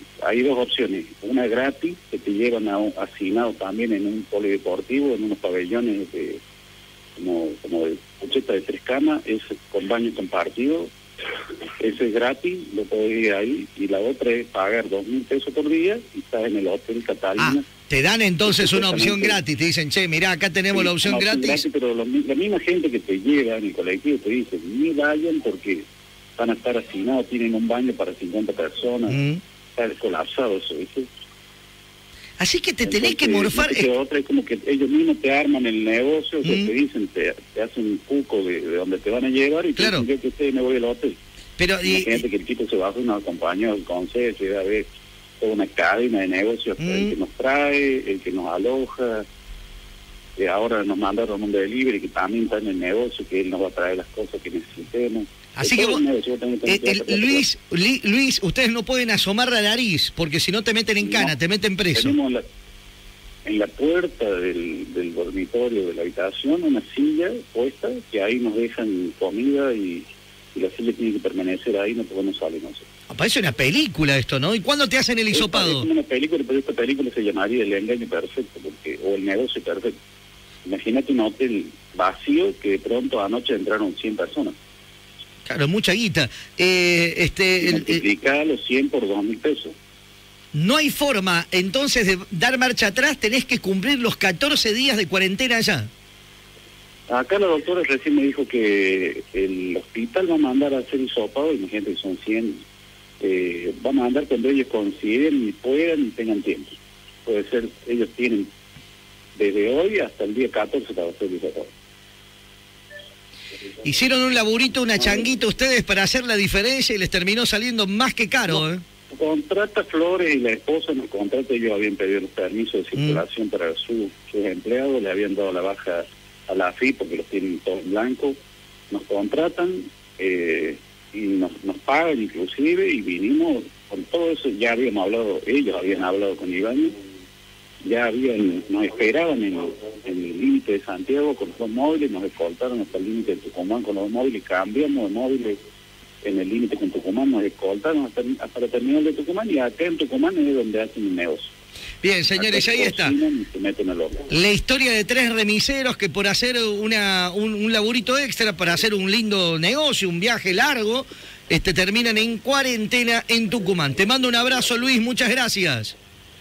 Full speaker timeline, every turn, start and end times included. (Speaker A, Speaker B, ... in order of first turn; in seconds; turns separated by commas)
Speaker A: 0.2-6.4, Speaker A: 7.2-10.9, Speaker A: 11.8-17.7, Speaker B: 17.4-21.6, Speaker A: 18.4-19.4, Speaker A: 20.7-25.8, Speaker A: 26.4-29.2, Speaker B: 29.1-29.4, Speaker A: 29.8-31.1, Speaker B: 32.4-33.9, Speaker A: 32.8-41.2, Speaker B: 36.4-36.7, Speaker B: 39.8-40.0, Speaker B: 41.6-42.2, Speaker A: 41.8-44.9, Speaker A: 45.4-49.2, Speaker B: 46.8-47.1, Speaker A: 50.4-57.4, Speaker B: 55.5-56.0, Speaker B: 56.7-62.1, Speaker A: 61.0-61.4, Speaker A: 61.9-62.4, Speaker A: 63.4-72.9, Speaker B: 73.1-75.9, Speaker A: 75.3-79.9, Speaker A: 80.7-84.5, Speaker B: 85.5-88.0, Speaker A: 87.6-89.7, Speaker B: 90.5-95.9, Speaker A: 97.1-102.6, Speaker A: 103.2-106.7, Speaker A: 107.2-108.5, Speaker A: 109.3-111.7, Speaker B: 113.8-118.8, Speaker A: 115.0-115.3, Speaker A: 118.5-128.4, Speaker B: 123.0-123.2, Speaker A: 128.9-136.9, Speaker A: 137.8-145.6, Speaker A: 146.2-151.5, Speaker B: 152.0-153.1, Speaker A: 152.4-154.2, Speaker B: 154.3-165.9